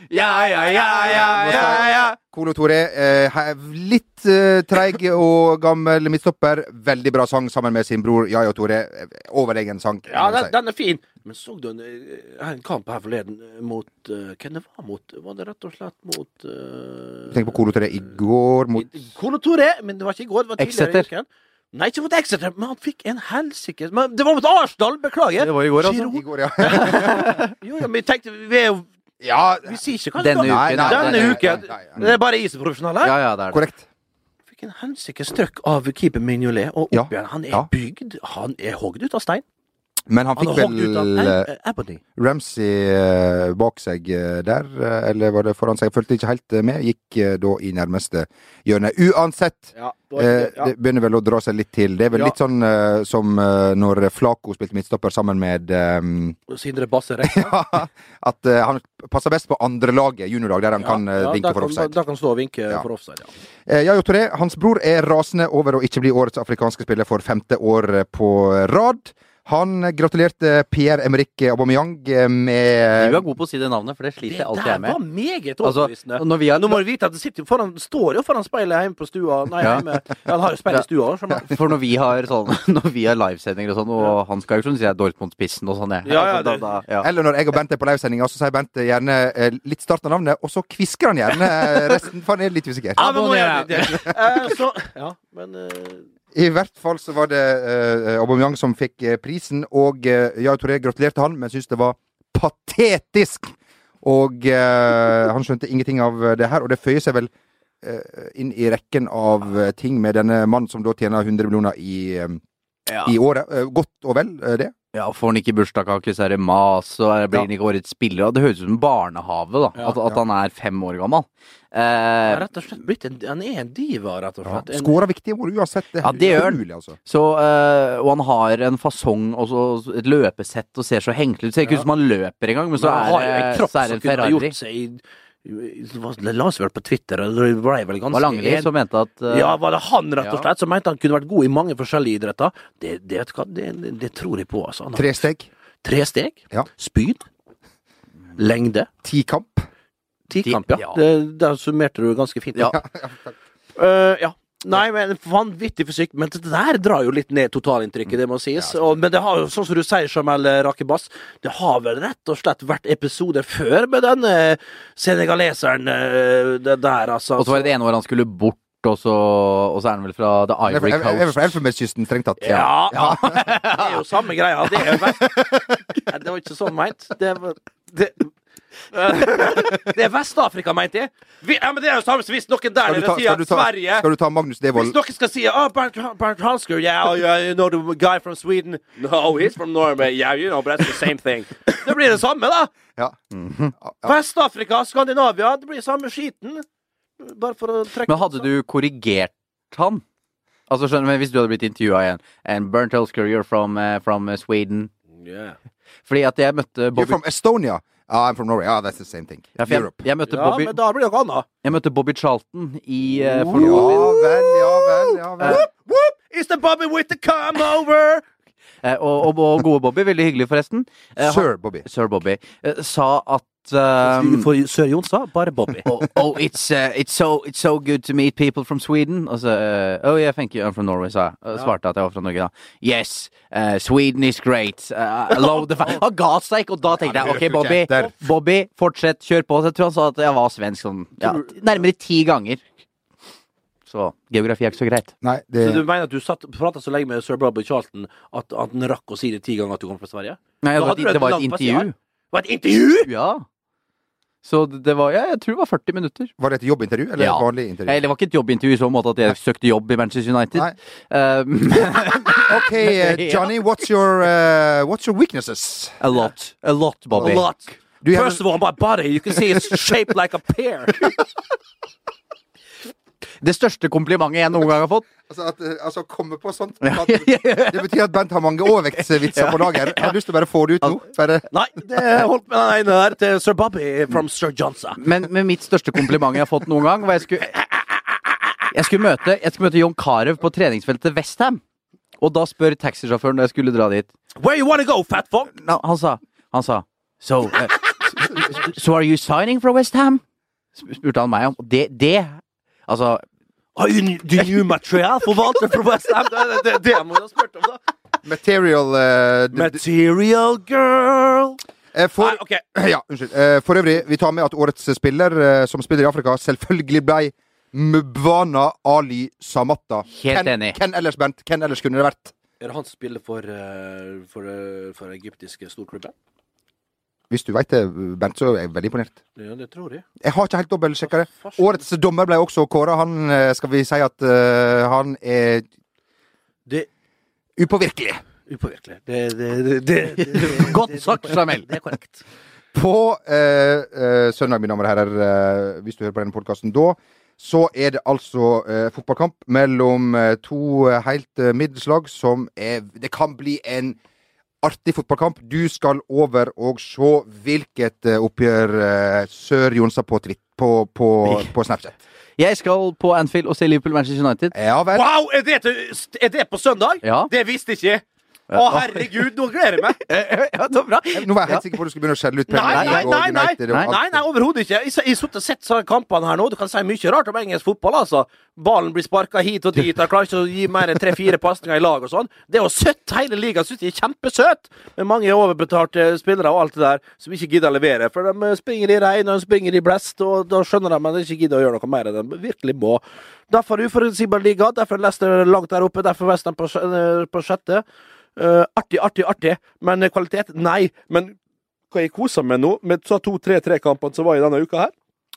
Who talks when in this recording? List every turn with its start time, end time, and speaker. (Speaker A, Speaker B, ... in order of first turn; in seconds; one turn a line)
Speaker A: 0.4-2.1
Speaker B: 0.8-10.5
Speaker A: 10.1-17.5
Speaker B: 17.3-18.9
Speaker A: 18.8-33.1
Speaker C: 20.6-21.1
Speaker C: 25.4-27.4
Speaker B: 26.1-27.3
Speaker B: 29.2-29.8
Speaker C: 30.2-31.6
Speaker B: 30.4-32.1
Speaker C: 33.0-33.6
Speaker B: 33.5-33.9
Speaker A: 34.5-39.4
Speaker B: 36.9-37.7
Speaker B: 40.1-41.5
Speaker A: 40.4-42.0
Speaker B: 42.2-56.4
Speaker A: 49.8-50.7
Speaker A: 56.5-57.6
Speaker B: 57.2-61.9
Speaker A: 60.8-63.3
Speaker B: 63.7-73.2
Speaker C: 73.0-75.0
Speaker A: 74.3-81.5
Speaker C: 75.6-76.8
Speaker C: 81.4-87.1
Speaker A: 86.0-86.8
Speaker B: 87.0-93.1
Speaker C: 93.0-94.1
Speaker A: 93.0-96.1
Speaker B: 96.3-107.3
Speaker B: 107.8-112.4
Speaker C: 112.9-113.1
Speaker B: 113.0-114.7
Speaker C: 114.9-122.4
Speaker A: 122.3-125.0
Speaker B: 124.5-127.0
Speaker C: 126.0-134.5
Speaker A: 132.8-138.7
Speaker C: 138.1-139.6
Speaker A: 139.3-145.2
Speaker C: 140.2-140.5
Speaker B: 144.9-145.5
Speaker A: 145.8-147.2
Speaker A: 148.4-148.9
Speaker B: 149.0-149.7
Speaker A: 150.3-152.8
Speaker C: 150.4-151.0
Speaker B: 152.7-153.3
Speaker A: 153.8-167.7
Speaker B: 158.6-159.0
Speaker C: 167.4-171.5
Speaker B: 170.7-173.4
Speaker A: 172.4-175.5
Speaker C: 172.9-173.9
Speaker B: 174.9-175.8
Speaker A: 176.1-178.3
Speaker A: 178.9-184.1
Speaker B: 182.8-185.0
Speaker A: 184.7-192.7
Speaker B: 193.0-194.1
Speaker A: 194.0-196.6
Speaker A: 197.2-198.5
Speaker C: 198.1-200.0
Speaker C: 200.7-204.9
Speaker A: 205.2-205.6
Speaker C: 206.1-207.2
Speaker B: 206.9-210.1
Speaker C: 209.6-210.8
Speaker A: 210.3-211.5
Speaker C: 211.6-214.1
Speaker A: 213.2-218.2
Speaker B: 213.6-215.7
Speaker C: 218.8-224.4
Speaker B: 221.2-221.8
Speaker A: 224.0-225.8
Speaker C: 225.8-242.7
Speaker B: 236.9-238.1
Speaker A: 241.2-241.6
Speaker C: 243.9-245.1
Speaker B: 245.2-245.8
Speaker A: 245.6-253.1
Speaker C: 250.6-251.9
Speaker C: 253.1-253.4
Speaker C: 254.4-256.3
Speaker B: 256.4-258.0
Speaker C: 257.2-263.5
Speaker B: 262.3-266.0
Speaker C: 266.0-267.4
Speaker B: 267.1-267.5
Speaker A: 267.2-271.2
Speaker B: 268.0-268.5
Speaker C: 273.4-275.1
Speaker B: 275.3-281.5
Speaker C: 276.8-277.9
Speaker C: 279.0-280.1
Speaker A: 281.5-285.0
Speaker C: 285.0-287.5
Speaker C: 288.7-291.6
Speaker C: 292.2-294.1
Speaker A: 294.4-295.6
Speaker C: 295.6-300.2
Speaker C: 300.8-303.2
Speaker A: 303.8-307.8
Speaker B: 308.2-309.8
Speaker A: 309.5-311.6
Speaker B: 311.9-322.3
Speaker A: 312.2-312.6
Speaker C: 320.1-320.8
Speaker A: 322.6-326.1
Speaker B: 327.3-329.2
Speaker A: 329.4-330.1
Speaker B: 330.2-335.7
Speaker A: 331.1-331.8
Speaker B: 337.6-338.2
Speaker A: 338.5-342.2
Speaker C: 340.5-341.7
Speaker B: 342.7-354.0
Speaker B: 354.6-362.0
Speaker C: 361.2-361.5
Speaker C: 362.4-364.6
Speaker B: 364.5-365.1
Speaker A: 364.9-370.0
Speaker C: 367.0-367.3
Speaker C: 368.5-369.1
Speaker C: 370.1-371.6
Speaker B: 371.2-374.2
Speaker A: 372.5-397.8
Speaker C: 372.7-373.1
Speaker A: 398.4-401.4
Speaker A: 401.9-404.9